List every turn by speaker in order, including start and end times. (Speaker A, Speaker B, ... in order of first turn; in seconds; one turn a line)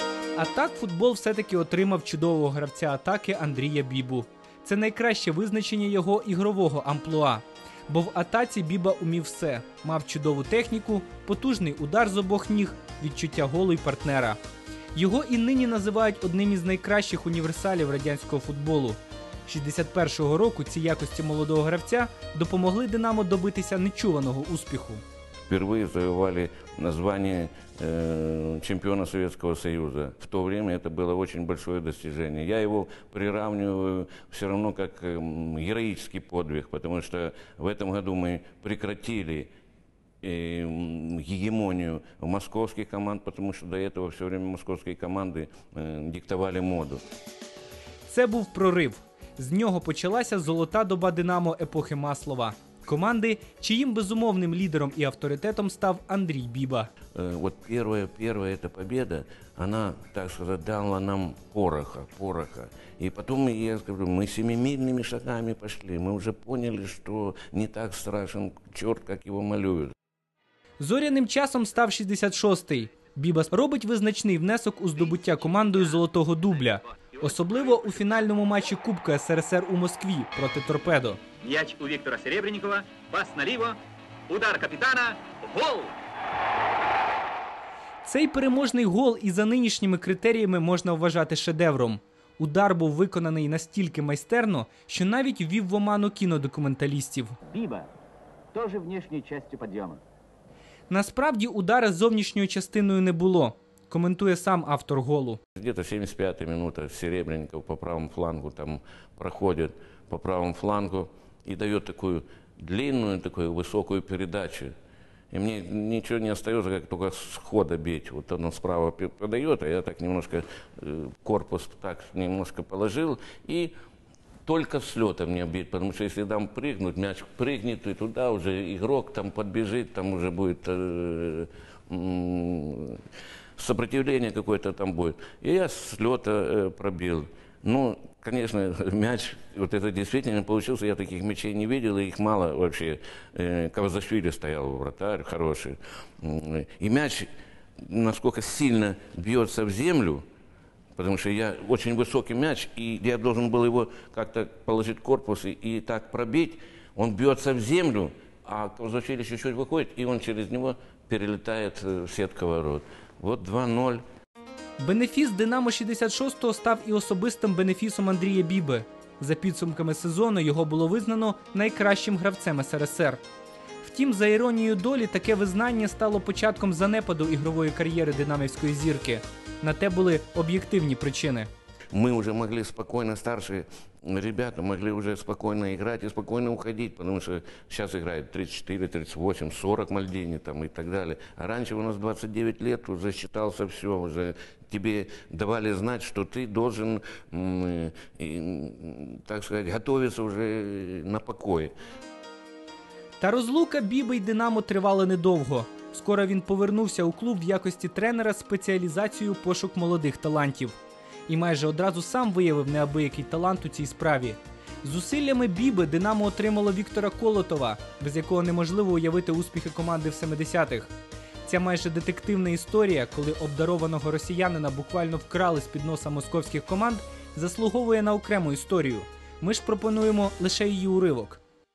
Speaker A: 0.4-14.4
Speaker A: 14.9-25.0
Speaker B: 25.5-39.5
Speaker B: 40.2-47.0
Speaker A: 48.1-56.9
Speaker B: 57.1-69.9
Speaker A: 70.8-81.2
Speaker C: 81.4-86.0
Speaker A: 88.0-97.4
Speaker C: 97.4-97.9
Speaker C: 98.5-100.0
Speaker A: 100.9-105.4
Speaker B: 105.6-114.7
Speaker B: 115.3-123.7
Speaker B: 124.5-133.1
Speaker B: 133.6-147.3
Speaker B: 147.8-150.2
Speaker B: 151.0-164.0
Speaker A: 164.8-173.2
Speaker A: 173.8-181.5
Speaker B: 181.9-201.8
Speaker A: 203.2-220.9
Speaker A: 221.4-231.4